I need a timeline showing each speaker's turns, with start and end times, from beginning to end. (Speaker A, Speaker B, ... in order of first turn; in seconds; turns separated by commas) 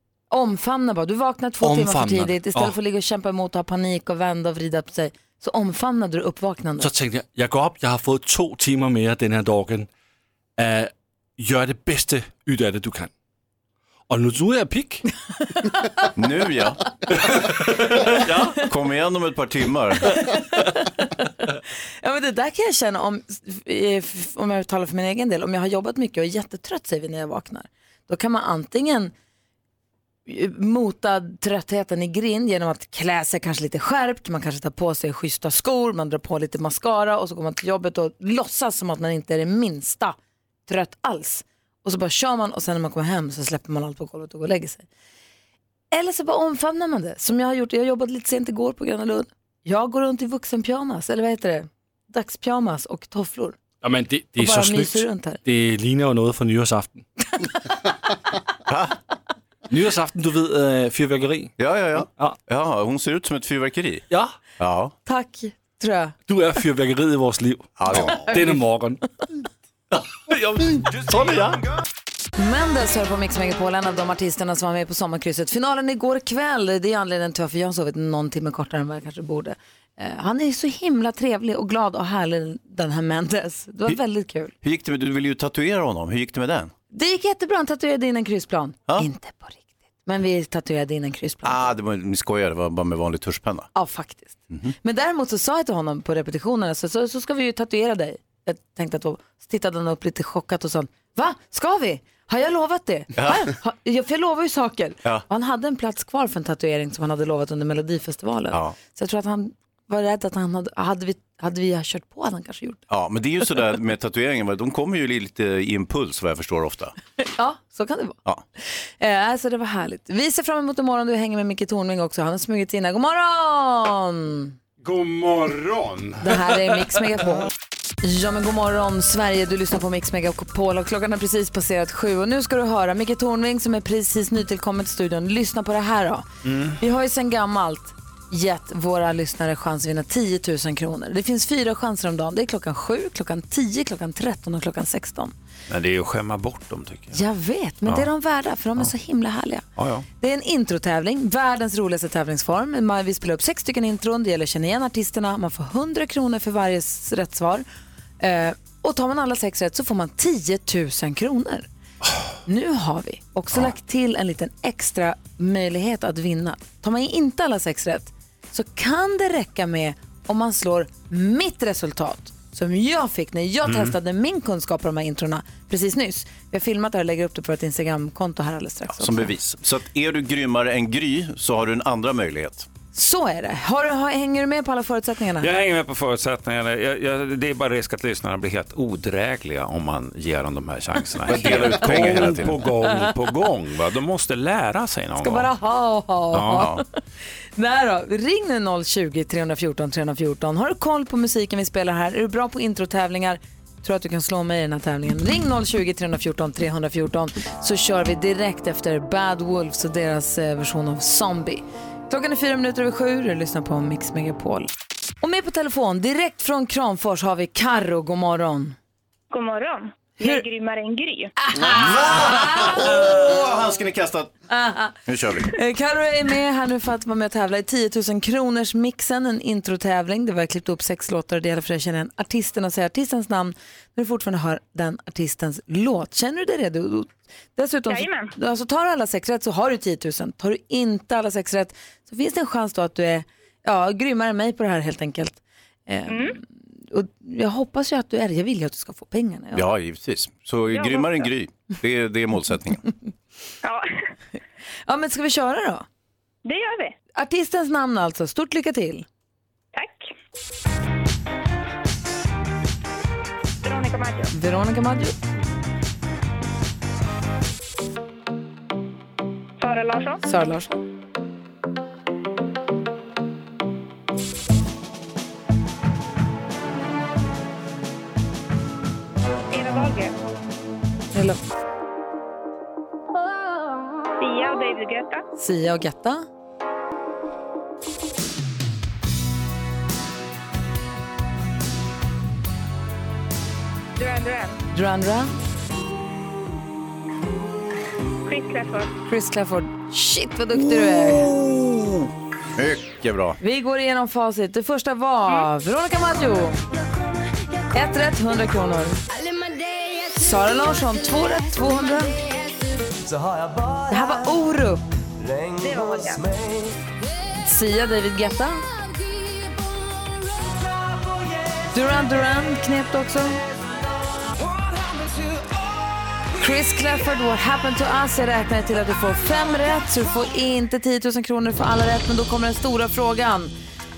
Speaker A: 0.3-6.9, Speaker B: 1.6-2.7, Speaker B: 6.8-9.9, Speaker B: 10.6-13.1, Speaker B: 14.1-15.0, Speaker C: 16.1-17.4, Speaker B: 17.9-18.6, Speaker C: 18.6-20.1, Speaker A: 20.3-21.2, Speaker A: 22.0-29.1, Speaker A: 30.3-40.1, Speaker A: 40.7-44.9, Speaker A: 45.9-53.6, Speaker B: 53.8-57.0, Speaker A: 54.4-55.4, Speaker C: 58.7-59.0, Speaker B: 59.7-61.5, Speaker C: 61.6-64.0, Speaker C: 64.6-64.9, Speaker A: 65.0-66.1, Speaker B: 66.3-69.0, Speaker C: 67.8-68.2, Speaker A: 67.9-68.6, Speaker B: 70.0-71.6, Speaker A: 72.4-84.5, Speaker C: 84.6-86.7, Speaker A: 86.9-91.7, Speaker C: 91.4-93.7, Speaker A: 93.7-112.8, Speaker C: 103.1-103.5, Speaker C: 108.5-108.8, Speaker C: 112.9-116.9, Speaker A: 117.2-124.5, Speaker D: 124.8-126.2, Speaker A: 126.2-127.5, Speaker A: 128.0-136.2, Speaker D: 136.4-136.8, Speaker A: 136.8-145.3, Speaker D: 145.7-147.2, Speaker A: 147.1-149.6, Speaker D: 149.8-150.1, Speaker A: 150.2-157.6, Speaker A: 158.2-161.7, Speaker A: 162.4-179.3, Speaker D: 173.7-173.9, Speaker C: 178.9-182.7, Speaker A: 182.9-185.5, Speaker D: 185.4-195.5, Speaker C: 191.2-192.6, Speaker B: 191.7-193.1, Speaker A: 195.2-197.0, Speaker D: 196.3-196.7, Speaker C: 196.4-196.8, Speaker A: 197.6-214.7, Speaker A: 215.2-218.8, Speaker E: 219.3-221.3, Speaker A: 221.4-223.4, Speaker C: 221.5-224.3, Speaker A: 224.5-224.9, Speaker C: 225.1-225.5, Speaker A: 225.5-249.6, Speaker E: 237.9-238.3, Speaker E: 246.1-246.3, Speaker C: 249.5-252.8, Speaker E: 250.7-251.3, Speaker A: 254.9-255.8, Speaker E: 256.4-256.9, Speaker A: 257.1-259.1, Speaker E: 259.7-260.1, Speaker E: 263.6-264.3, Speaker A: 264.3-265.1, Speaker E: 269.6-270.2, Speaker A: 270.2-270.7, Speaker E: 279.5-280.1, Speaker A: 281.1-281.4, Speaker E: 284.2-285.2, Speaker A: 285.4-286.2, Speaker E: 294.0-294.6, Speaker A: 294.7-295.3, Speaker E: 298.2-298.9, Speaker A: 299.1-301.3, Speaker C: 300.7-303.4, Speaker A: 303.4-306.6, Speaker A: 307.7-309.0, Speaker A: 310.1-312.2, Speaker A: 313.9-314.9, Speaker E: 315.6-316.3, Speaker A: 317.3-318.6, Speaker A: 321.7-323.4, Speaker A: 326.3-333.5